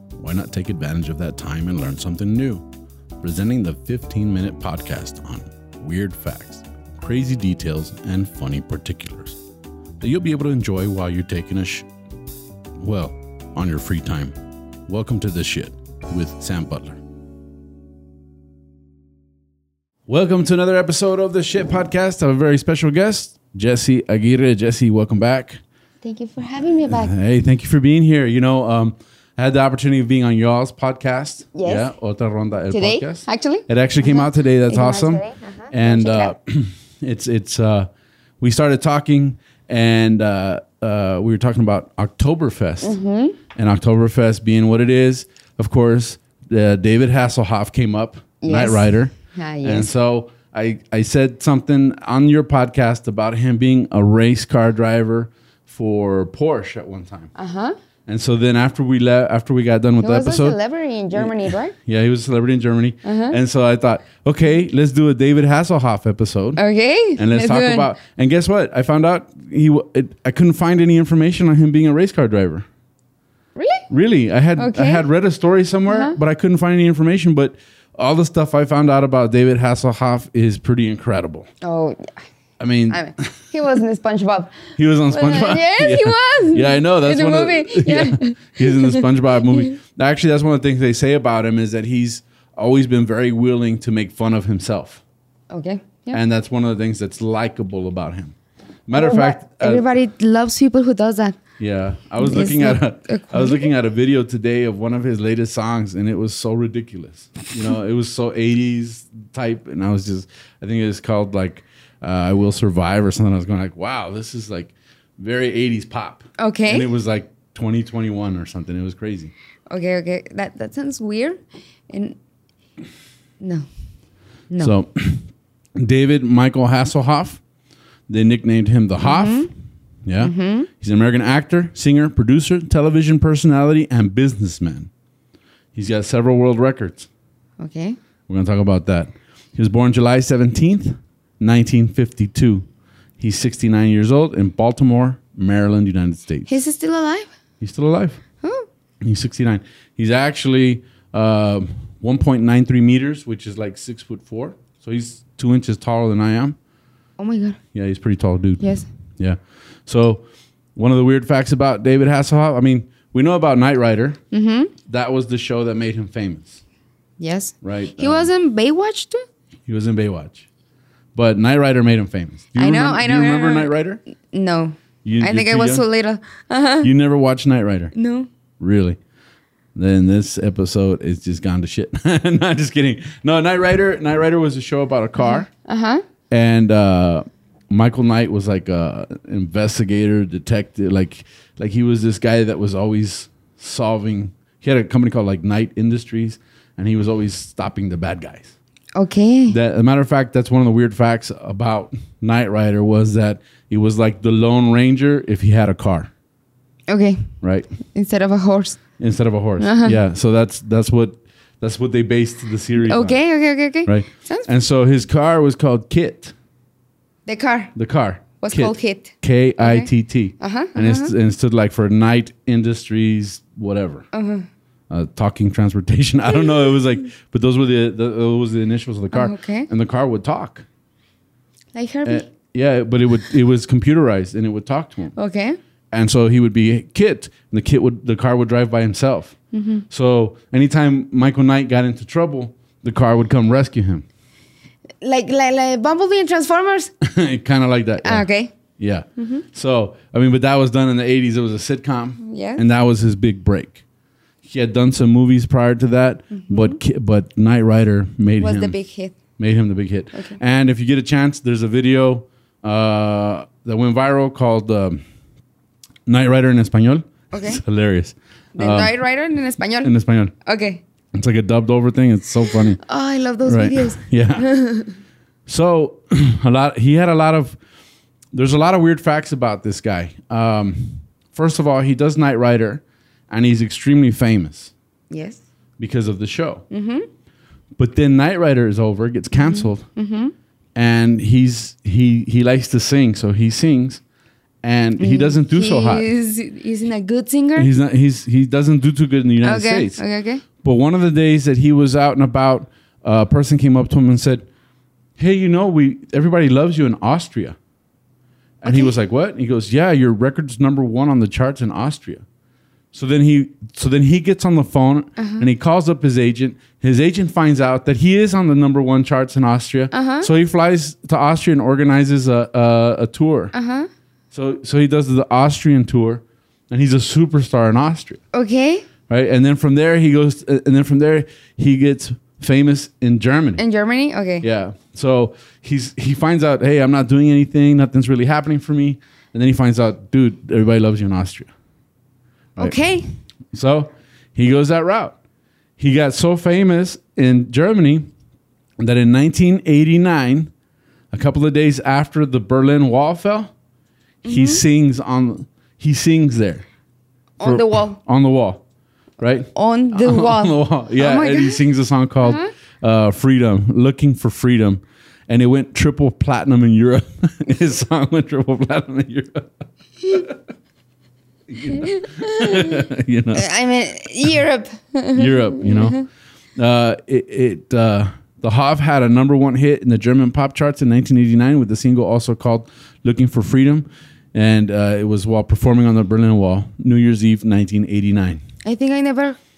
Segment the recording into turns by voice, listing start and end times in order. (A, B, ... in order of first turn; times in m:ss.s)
0:00.2-0:02.6 A
0:03.2-0:09.4 A
0:10.0-0:11.9 A
0:12.8-0:14.4 A
0:14.9-0:17.0 A
0:20.1-0:25.6 A
0:26.0-0:27.1 B
0:26.9-0:37.9 A
0:31.6-0:31.9 B
0:32.7-0:36.3 B
0:38.4-0:43.0 A
0:42.8-0:43.4 B
0:43.6-0:57.3 A
0:48.4-0:49.9 B
0:57.4-0:57.8 B
0:58.1-1:00.6 A
1:00.0-1:01.8 B
1:01.1-1:06.6 A
1:03.0-1:03.4 B
1:06.6-1:07.9 B
1:07.2-1:12.7 A
1:13.6-1:13.8 B
1:13.9-1:21.5 A
1:14.6-1:15.0 B
1:15.9-1:16.2 B
1:21.6-1:22.2 B
1:22.6-1:23.4 A
1:22.9-1:29.7 B
1:24.8-1:35.0 A
1:35.5-1:36.2 B
1:36.1-1:38.4 A
1:38.9-1:39.9 A
1:38.9-1:41.4 B
1:41.6-1:59.3 A
1:42.2-1:43.7 B
1:56.4-1:56.9 B
1:59.7-2:01.4 B
2:01.9-2:02.2 B
2:03.4-2:03.7 B
2:04.5-2:04.8 B
2:04.6-2:07.4 A
2:08.1-2:09.5 A
2:09.0-2:09.5 B
2:10.1-2:14.9 A
2:10.2-2:10.7 B
2:15.8-2:17.1 A
2:17.6-2:18.0 B
2:18.3-2:22.7 A
2:23.2-2:26.6 A
2:26.5-2:27.3 B
2:27.6-2:28.2 A
2:28.4-2:28.7 B
2:29.0-2:36.6 A
2:37.2-2:37.6 B
2:37.7-2:40.2 A
2:38.6-2:38.9 B
2:40.8-2:44.2 A
2:44.3-2:44.7 B
2:44.9-2:46.6 A
2:47.2-2:49.2 B
2:47.6-2:48.3 A
2:49.7-2:50.5 A
2:51.2-2:54.0 A
2:52.6-2:53.7 B
2:54.3-2:56.9 B
2:55.0-2:55.8 A
2:56.8-2:57.9 A
2:58.0-2:58.3 B
2:58.6-2:59.0 A
2:59.8-3:05.5 A
3:05.2-3:06.0 B
3:06.3-3:18.5 A
3:19.0-3:19.6 B
3:19.5-3:26.1 A
3:26.9-3:27.3 B
3:27.4-3:27.7 A
3:27.8-3:28.8 B
3:29.0-3:33.2 A
3:29.6-3:30.0 B
3:32.8-3:34.5 B
3:33.8-3:36.3 A
3:37.3-3:37.7 B
3:37.8-3:44.1 A
3:38.4-3:41.1 B
3:44.1-3:44.5 B
3:44.9-3:50.6 A
3:49.1-3:49.7 B
3:51.8-3:52.3 B
3:52.0-3:55.1 A
3:55.2-3:55.6 B
3:55.9-3:59.4 A
3:59.5-3:59.8 B
3:59.9-4:04.0 A
4:05.0-4:06.9 B
4:07.0-4:08.3 A
4:08.0-4:08.6 B
4:08.8-4:13.8 A
4:09.2-4:09.4 B
4:12.2-4:12.6 B
4:14.4-4:18.8 A
4:16.3-4:16.8 B
4:18.4-4:19.2 B
4:19.4-4:25.0 A
4:26.1-4:29.0 A
4:27.3-4:27.6 B
4:28.6-4:29.9 B
4:29.8-4:30.4 A
4:30.4-4:30.8 B
4:31.1-4:32.8 A
4:32.5-4:35.0 B
4:33.4-4:34.5 A
4:35.5-4:37.6 A
4:38.3-4:44.7 A
4:45.1-4:45.4 B
4:45.8-4:46.6 A
4:46.7-4:47.1 B
4:47.8-4:49.9 A
4:49.4-4:50.3 B
4:50.8-4:54.0 A
4:54.6-4:56.1 A
4:55.0-4:57.7 B
4:57.6-5:00.0 A
4:59.4-5:00.4 B
5:00.6-5:04.5 A
5:05.2-5:07.6 A
5:08.6-5:12.2 A
5:08.7-5:08.9 B
5:12.9-5:23.5 A
5:15.2-5:15.5 B
5:19.9-5:20.3 B
5:23.5-5:23.9 B
5:24.3-5:28.2 A
5:28.3-5:28.9 B
5:29.1-5:33.6 A
5:33.6-5:34.4 B
5:34.4-5:41.5 A
5:42.6-5:43.1 B
5:43.5-5:45.2 A
5:45.8-5:48.1 A
5:48.8-5:50.5 A
5:51.1-5:53.5 A
5:54.2-5:56.6 A
5:54.2-5:54.6 B
5:57.4-5:58.0 B
5:57.4-5:58.6 A
5:59.2-6:09.5 A
5:59.6-6:01.6 B
6:02.2-6:02.5 B
6:10.1-6:10.3 A
6:11.5-6:13.5 A
6:11.7-6:12.8 B
6:13.3-6:16.0 B
6:15.2-6:16.0 A
6:16.6-6:28.4 A
6:28.6-6:29.4 B